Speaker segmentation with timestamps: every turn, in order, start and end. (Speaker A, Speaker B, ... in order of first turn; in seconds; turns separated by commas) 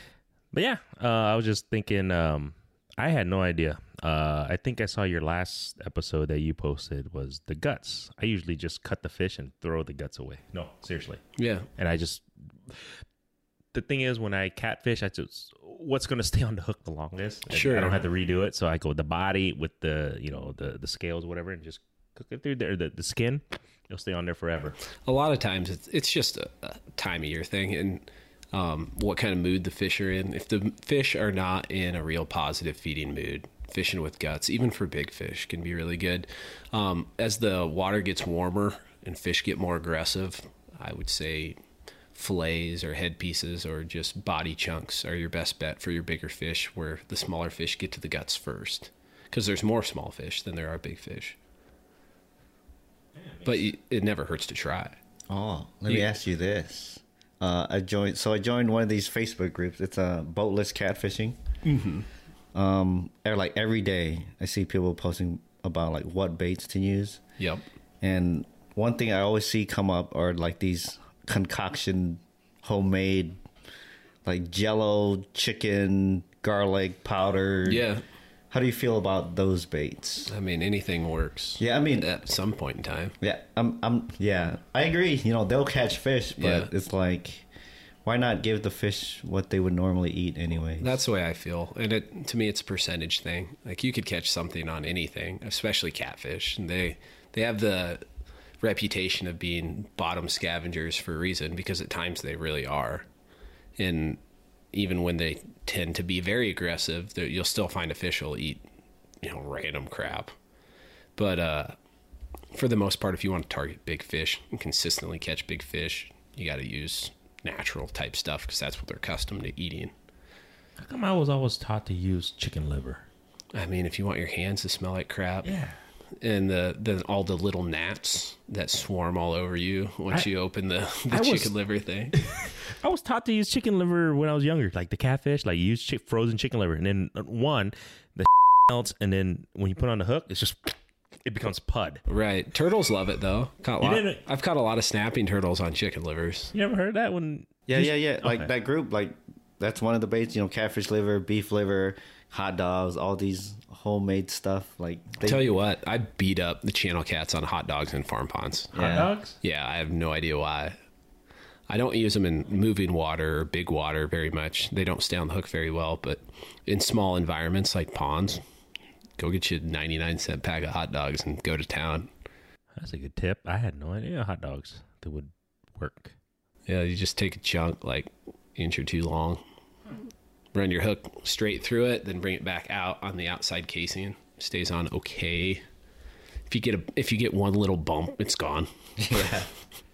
Speaker A: 0.5-11.2, Speaker B: 11.4-11.7, Speaker A: 11.8-12.9, Speaker A: 13.7-24.8, Speaker B: 17.5-18.0, Speaker B: 25.1-41.6, Speaker B: 42.1-51.4, Speaker A: 53.2-53.7, Speaker B: 53.5-55.0, Speaker C: 55.3-61.4, Speaker B: 61.6-62.1, Speaker C: 62.5-67.2, Speaker B: 67.4-67.6, Speaker C: 68.0-73.4, Speaker C: 74.2-77.8, Speaker B: 77.7-78.0, Speaker C: 78.5-80.3, Speaker B: 80.3-83.2, Speaker C: 81.6-82.1, Speaker C: 83.2-87.5, Speaker B: 86.4-86.7, Speaker C: 88.0-91.0, Speaker B: 90.8-98.0, Speaker B: 98.6-103.1, Speaker B: 103.8-104.2, Speaker B: 104.7-108.6, Speaker B: 109.2-110.3, Speaker B: 111.2-111.8, Speaker B: 112.5-119.9, Speaker A: 120.8-123.1, Speaker B: 123.5-125.5, Speaker A: 125.4-125.8, Speaker B: 126.2-132.2, Speaker A: 131.1-131.5, Speaker A: 132.1-142.0, Speaker B: 142.1-146.5, Speaker A: 143.8-144.2, Speaker A: 146.5-148.5, Speaker C: 147.7-155.5, Speaker B: 155.2-158.8, Speaker C: 158.7-159.1, Speaker A: 158.8-159.4, Speaker B: 159.4-160.8, Speaker B: 161.7-168.4, Speaker B: 169.2-172.1, Speaker A: 172.8-176.1, Speaker B: 176.7-179.4, Speaker B: 180.5-185.6, Speaker B: 186.5-189.4, Speaker C: 189.0-189.5